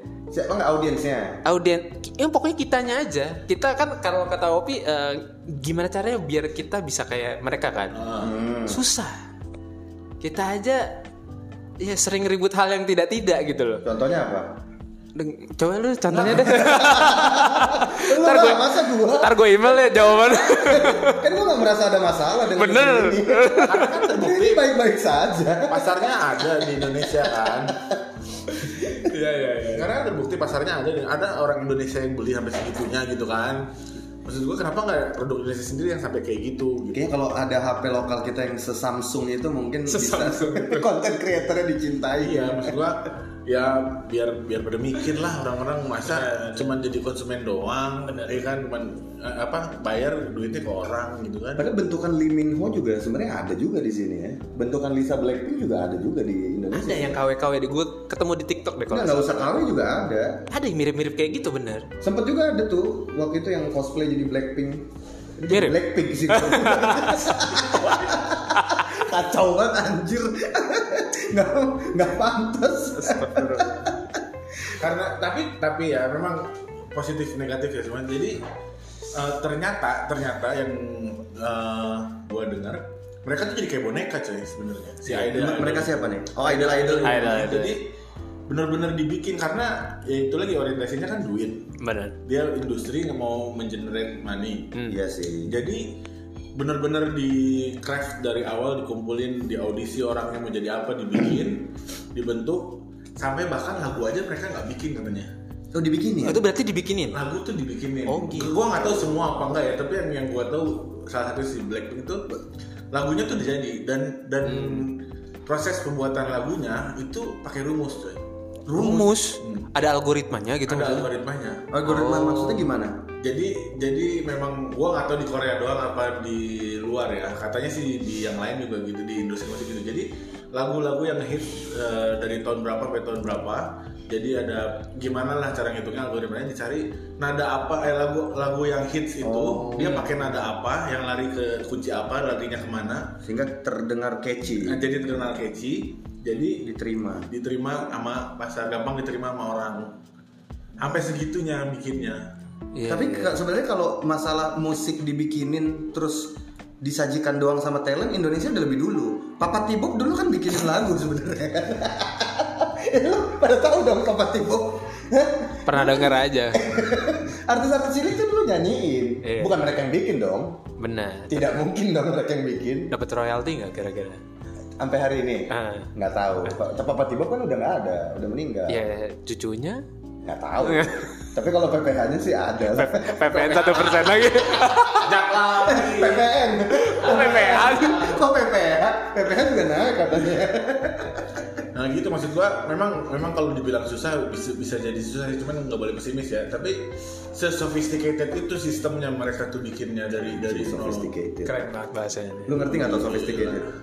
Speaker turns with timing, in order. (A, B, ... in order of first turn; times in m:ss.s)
0:00.3-0:01.4 A
0:01.4-0:08.0 B
0:07.9-0:08.4 C
0:08.2-0:08.8 A
0:08.7-0:09.2 B
0:10.2-0:11.0 B
0:11.8-0:13.8 B
0:13.8-0:14.6 A
0:15.1-0:21.2 B
0:16.1-0:28.1 A
0:22.5-0:24.1 B
0:23.6-0:24.7 C
0:25.7-0:27.8 C
0:28.6-0:29.9 B
0:28.6-0:29.1 A
0:29.7-0:33.7 C
0:34.2-0:37.1 C
0:36.9-0:42.8 A
0:39.9-0:40.9 B
0:42.2-0:51.7 C
0:46.2-0:46.6 B
0:48.1-0:48.4 B
0:51.6-0:57.2 A
0:56.7-0:59.5 B
0:58.9-1:00.5 A
1:00.5-1:01.9 B
1:02.0-1:14.2 A
1:05.5-1:07.8 B
1:07.6-1:08.2 C
1:08.5-1:08.8 B
1:12.9-1:13.8 B
1:14.7-1:18.4 C
1:19.1-1:27.9 C
1:25.1-1:27.5 A
1:27.0-1:27.8 B
1:28.5-1:31.7 C
1:31.8-1:32.2 B
1:32.2-1:34.7 C
1:34.7-1:35.0 B
1:34.9-1:35.6 A
1:35.4-1:36.0 C
1:36.6-1:45.3 C
1:45.7-1:46.4 A
1:46.2-1:47.2 B
1:47.1-1:52.3 C
1:48.1-1:48.7 B
1:48.8-1:49.3 A
1:52.9-1:58.2 C
1:54.4-1:54.9 B
1:58.7-1:59.1 A
1:58.7-2:01.1 B
1:59.4-1:59.7 C
2:00.7-2:01.7 C
2:01.7-2:03.0 A
2:01.8-2:02.7 B
2:03.2-2:23.2 C
2:19.2-2:20.1 A
2:19.8-2:20.1 B
2:23.2-2:24.8 A
2:24.6-2:26.7 C
2:26.6-2:27.3 A
2:27.3-2:30.0 C
2:30.8-2:32.3 C
2:32.7-2:33.4 B
2:32.9-2:50.6 A
2:45.6-2:46.6 B
2:49.2-2:49.6 B
2:50.8-2:51.6 B
2:51.3-2:52.9 A
2:52.9-2:54.2 B
2:54.8-2:58.8 A
2:55.5-2:55.9 B
2:58.7-2:59.8 B
3:00.2-3:03.5 A
3:00.6-3:01.1 B
3:02.7-3:05.1 B
3:03.3-3:06.3 C
3:05.6-3:11.6 A
3:06.7-3:08.1 B
3:07.1-3:08.1 C
3:11.7-3:21.1 C
3:20.5-3:21.7 A
3:21.4-3:22.6 B
3:22.4-3:23.7 A
3:22.6-3:23.7 C